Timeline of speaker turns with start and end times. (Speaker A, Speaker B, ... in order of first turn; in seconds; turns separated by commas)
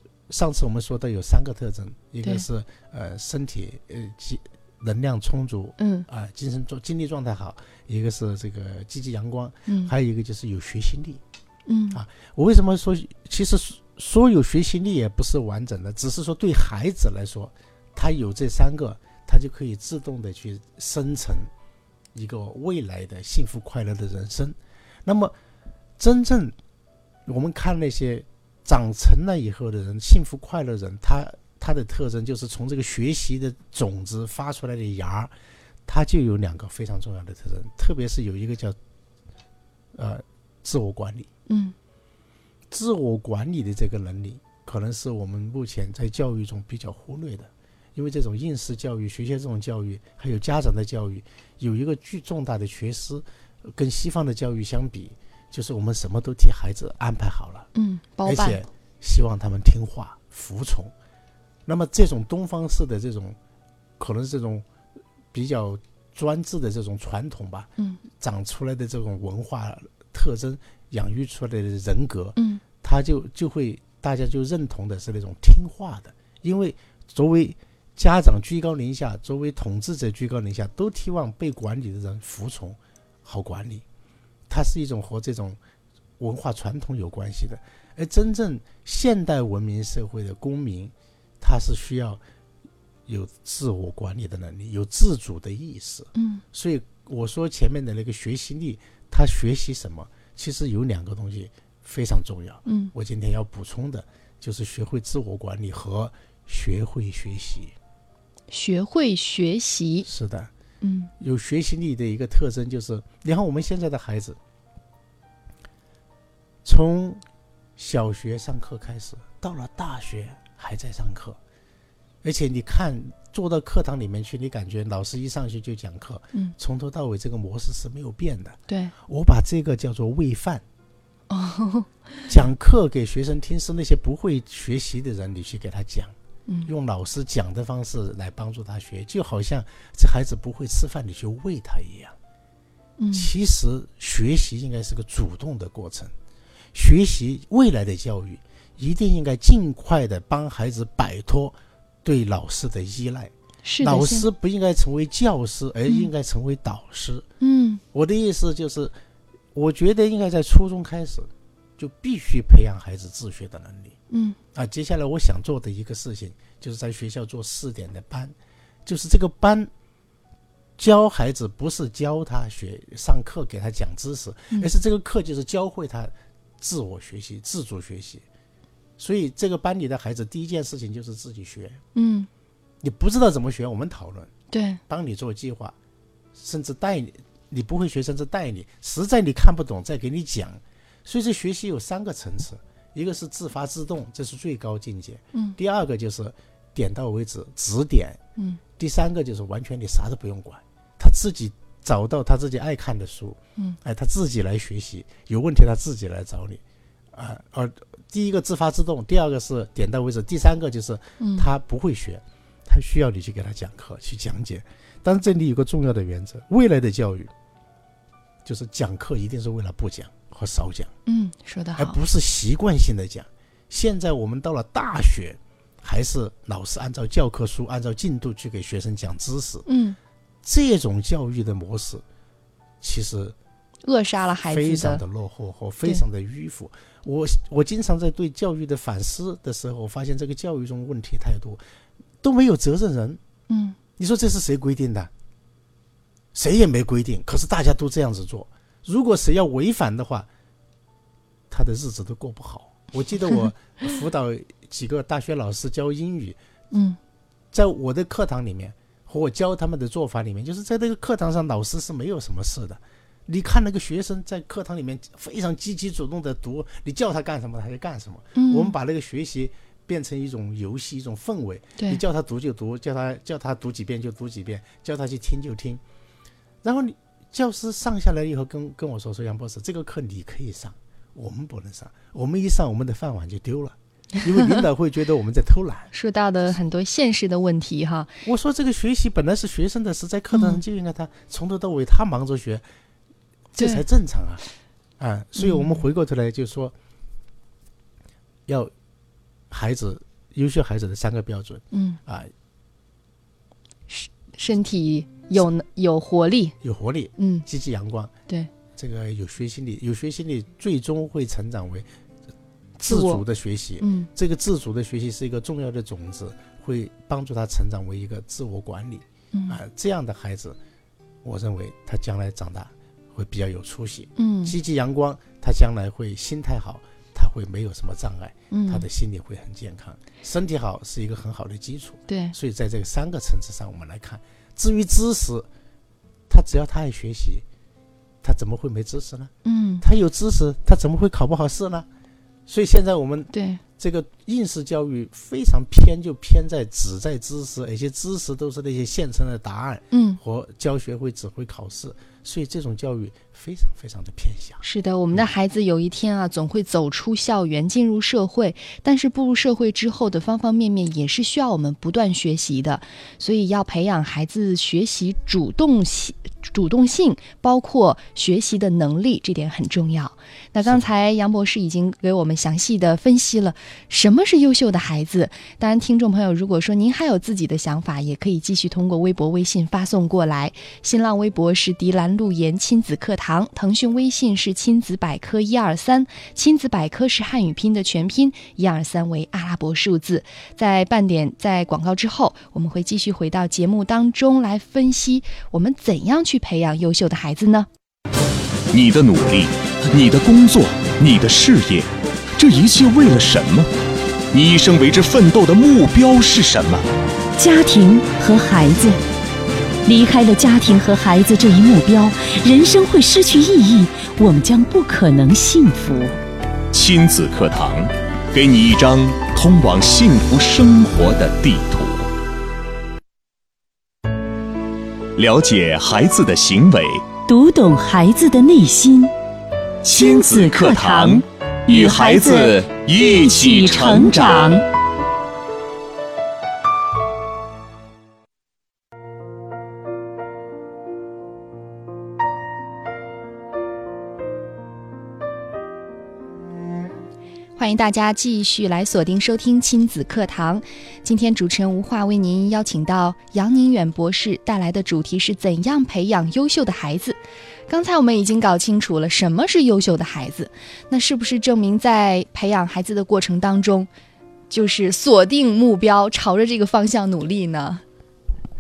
Speaker A: 0.3-11.2, Speaker B: 5.8-6.1, Speaker B: 9.7-9.9, Speaker B: 11.7-12.0, Speaker A: 11.9-21.5, Speaker A: 22.1-25.4, Speaker A: 26.0-26.6, Speaker A: 27.3-35.3, Speaker A: 35.9-38.8, Speaker A: 39.9-41.3, Speaker B: 41.5-41.8, Speaker A: 42.7-57.7, Speaker B: 57.8-58.6, Speaker A: 58.2-60.9, Speaker A: 61.7-63.4, Speaker A: 64.0-64.7, Speaker A: 65.3-83.8, Speaker B: 72.4-72.6, Speaker A: 84.5-85.6, Speaker A: 86.2-92.2, Speaker A: 93.1-107.7, Speaker B: 96.2-96.4, Speaker B: 102.7-102.9, Speaker B: 108.5-110.1, Speaker A: 110.0-110.5, Speaker B: 110.8-111.1, Speaker A: 111.2-114.4, Speaker A: 116.6-117.2, Speaker A: 117.8-121.4, Speaker A: 122.2-130.6, Speaker B: 128.7-128.9, Speaker B: 131.3-131.9, Speaker A: 132.3-136.2, Speaker A: 136.7-142.2, Speaker B: 143.0-143.3, Speaker A: 143.1-146.1, Speaker A: 146.7-157.3, Speaker B: 153.6-154.3, Speaker B: 157.4-157.8, Speaker A: 157.9-158.9, Speaker A: 159.5-164.0, Speaker B: 164.1-164.4, Speaker A: 164.5-168.3, Speaker A: 168.9-169.7, Speaker A: 170.8-178.2, Speaker A: 179.0-181.8, Speaker B: 181.9-182.3, Speaker A: 182.8-184.3, Speaker B: 184.5-184.8, Speaker A: 184.9-185.8, Speaker A: 186.4-198.2, Speaker A: 198.8-206.6, Speaker A: 207.1-217.3, Speaker B: 211.2-211.5, Speaker A: 218.4-220.9, Speaker B: 221.1-222.0, Speaker A: 221.8-229.7, Speaker B: 229.7-230.0, Speaker A: 230.4-232.0, Speaker A: 232.8-233.4, Speaker B: 233.8-235.0, Speaker A: 234.4-241.6, Speaker A: 242.2-243.2, Speaker B: 243.5-243.8, Speaker A: 244.0-245.1, Speaker A: 246.3-250.3, Speaker A: 251.5-256.4, Speaker B: 256.7-257.0, Speaker A: 257.5-275.8, Speaker B: 268.4-268.7, Speaker A: 276.6-285.9, Speaker B: 285.9-288.1, Speaker A: 288.2-292.6, Speaker B: 290.3-290.6, Speaker A: 293.5-294.4, Speaker B: 293.6-293.8, Speaker A: 295.0-296.8, Speaker B: 295.4-295.8, Speaker A: 298.5-298.7, Speaker A: 299.5-302.3, Speaker B: 301.7-302.0, Speaker B: 303.9-306.6, Speaker A: 306.6-308.1, Speaker B: 307.2-307.4, Speaker A: 308.8-311.9, Speaker A: 312.8-320.6, Speaker B: 312.9-313.2, Speaker B: 313.8-314.1, Speaker B: 319.3-319.6, Speaker A: 321.2-335.5, Speaker B: 324.2-324.6, Speaker B: 328.5-328.9, Speaker B: 332.1-332.4, Speaker A: 336.3-337.4, Speaker A: 338.2-341.9, Speaker B: 339.4-339.8, Speaker A: 342.5-354.6, Speaker B: 343.3-343.6, Speaker B: 349.9-350.2, Speaker B: 354.6-397.7, Speaker C: 398.7-403.7, Speaker C: 404.3-406.9, Speaker D: 407.4-409.0, Speaker D: 409.9-416.2, Speaker C: 416.7-422.1, Speaker C: 425.2-427.1, Speaker D: 427.3-429.1, Speaker C: 429.8-434.6, Speaker D: 429.9-434.6, Speaker B: 447.6-463.9, Speaker B: 464.5-467.8